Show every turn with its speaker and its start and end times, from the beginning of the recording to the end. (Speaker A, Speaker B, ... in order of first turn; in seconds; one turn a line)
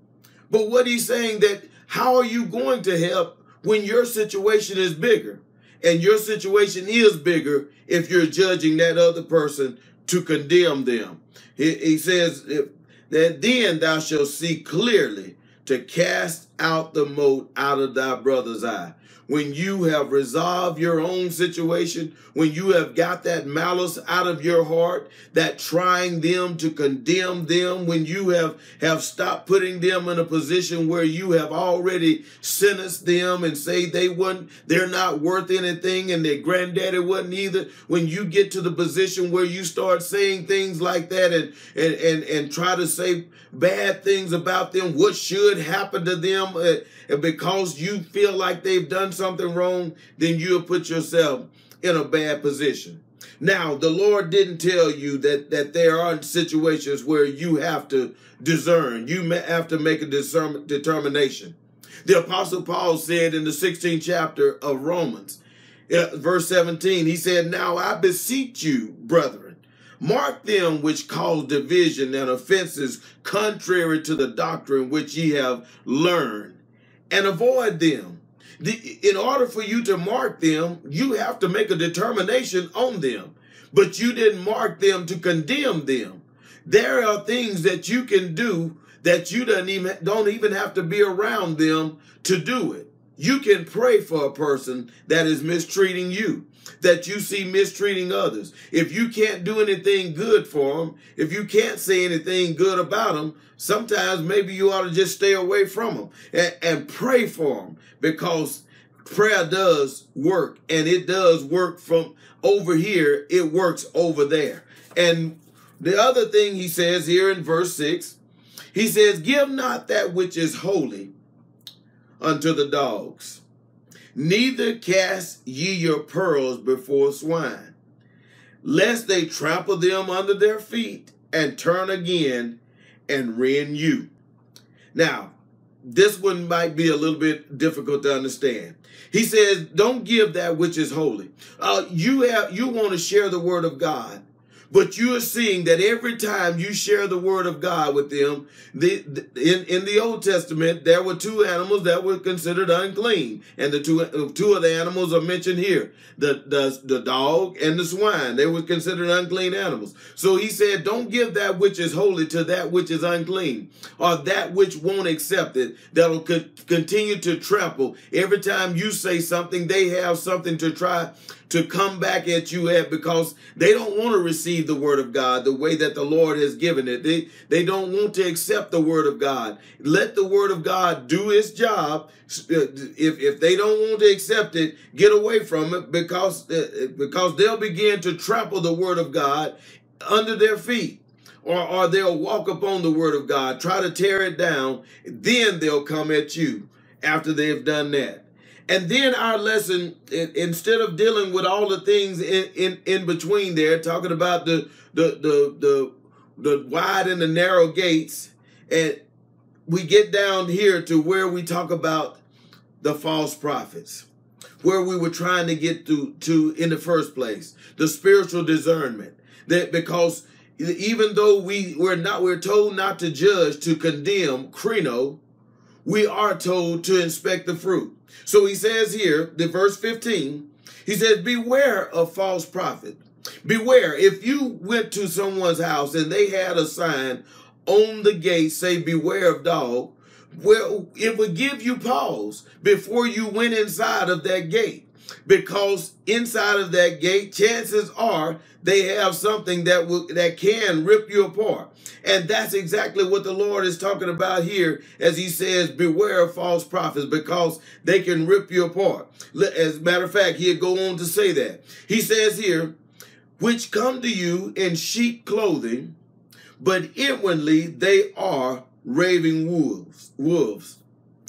Speaker A: 0.5-76.6
Speaker A: 77.1-118.2
Speaker A: 118.7-121.1
Speaker A: 122.2-123.4
Speaker A: 124.2-127.7
Speaker A: 128.6-132.6
Speaker A: 133.1-134.1
Speaker A: 134.9-209.0
Speaker A: 209.7-212.2
Speaker A: 212.8-214.1
Speaker A: 214.6-225.2
Speaker A: 225.8-262.7
Speaker A: 263.4-265.9
Speaker A: 266.6-270.8